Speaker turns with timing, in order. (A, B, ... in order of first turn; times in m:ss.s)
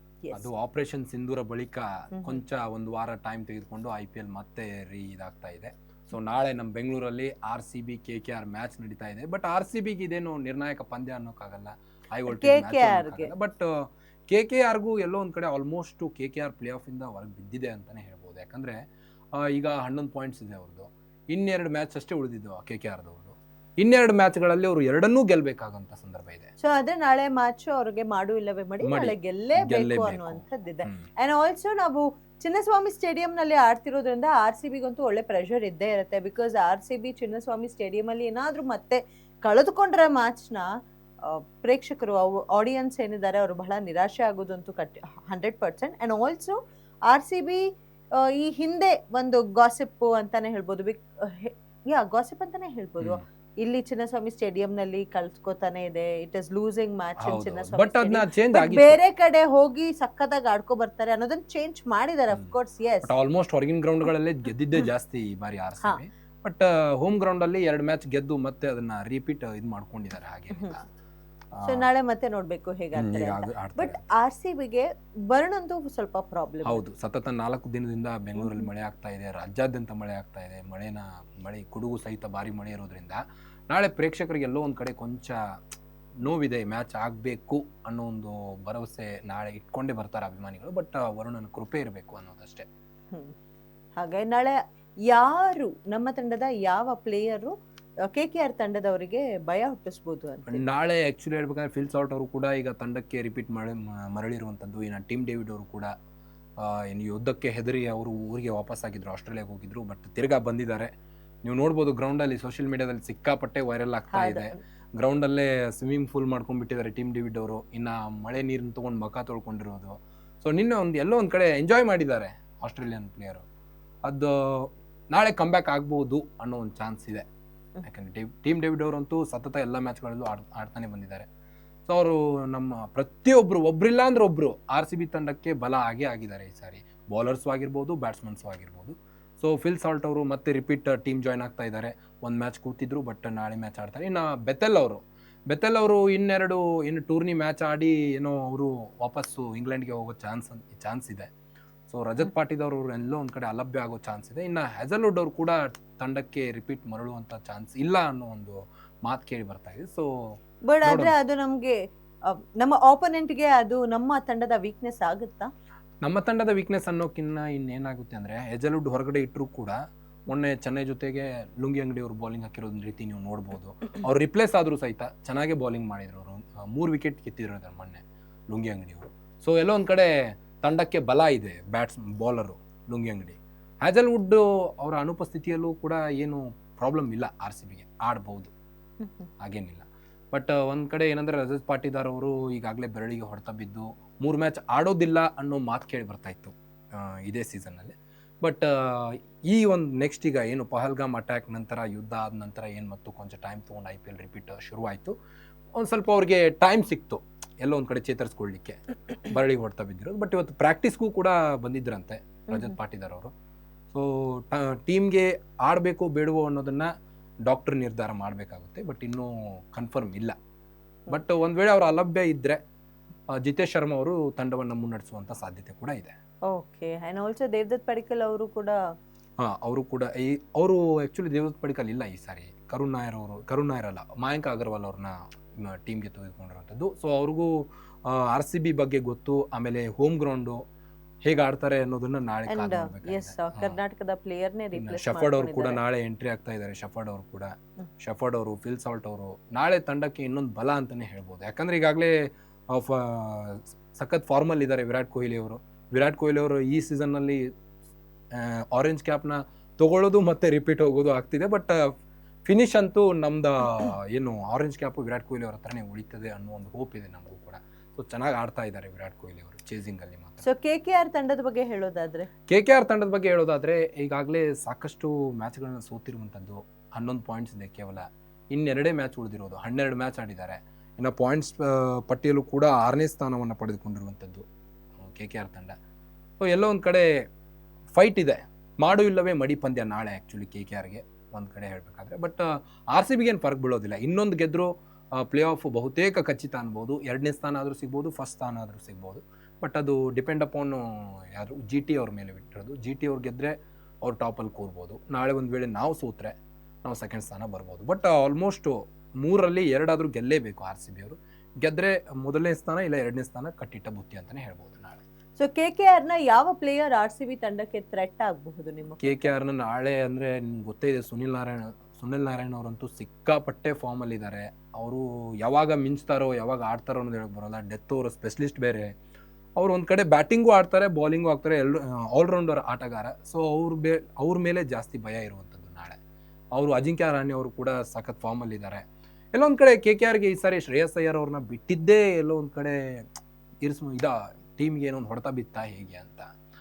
0:00.2-0:00.5 A
0:00.3-0:18.8 B
0:02.1-0:02.4 A
0:12.3-0:13.3 A
0:19.4-0:26.5 B
0:26.6-0:40.7 A
0:28.8-0:31.1 B
0:41.2-0:46.6 A
0:47.1-0:47.6 A
0:48.2-1:03.1 A
0:57.2-0:59.0 B
1:03.0-1:10.8 B
1:11.5-1:11.8 B
1:11.6-1:16.8 A
1:12.9-1:14.0 B
1:16.6-1:25.4 B
1:18.4-1:18.7 A
1:26.2-1:32.7 B
1:34.0-1:34.6 A
1:35.1-1:37.5 A
1:38.0-1:40.6 A
1:40.5-1:45.9 B
1:46.6-1:50.9 B
1:51.4-2:03.4 B
1:54.1-1:54.6 A
2:04.0-2:07.2 B
2:07.8-2:11.3 B
2:11.8-2:31.3 B
2:31.9-2:40.1 B
2:40.7-2:41.8 A
2:40.8-2:41.1 B
2:42.3-2:45.5 A
2:46.0-3:08.5 B
3:09.0-3:09.3 A
3:09.4-3:25.1 B
3:25.8-3:33.3 B
3:32.5-3:32.8 A
3:33.9-3:36.9 B
3:37.4-3:40.3 B
3:41.1-3:42.6 B
3:43.3-3:46.1 B
3:46.5-3:48.8 A
3:49.4-4:00.6 B
4:01.2-4:03.8 B
4:02.5-4:05.8 A
4:04.8-4:17.4 B
4:18.3-4:21.9 B
4:22.4-4:30.4 B
4:30.4-4:32.3 A
4:32.5-4:44.4 B
4:45.0-4:45.7 B
4:46.4-4:47.1 B
4:47.9-5:06.3 B
5:06.8-5:15.0 B
5:15.4-5:19.3 A
5:19.0-5:28.9 B
5:29.6-5:36.0 B
5:36.6-5:38.8 B
5:39.3-5:43.1 B
5:43.6-5:46.3 B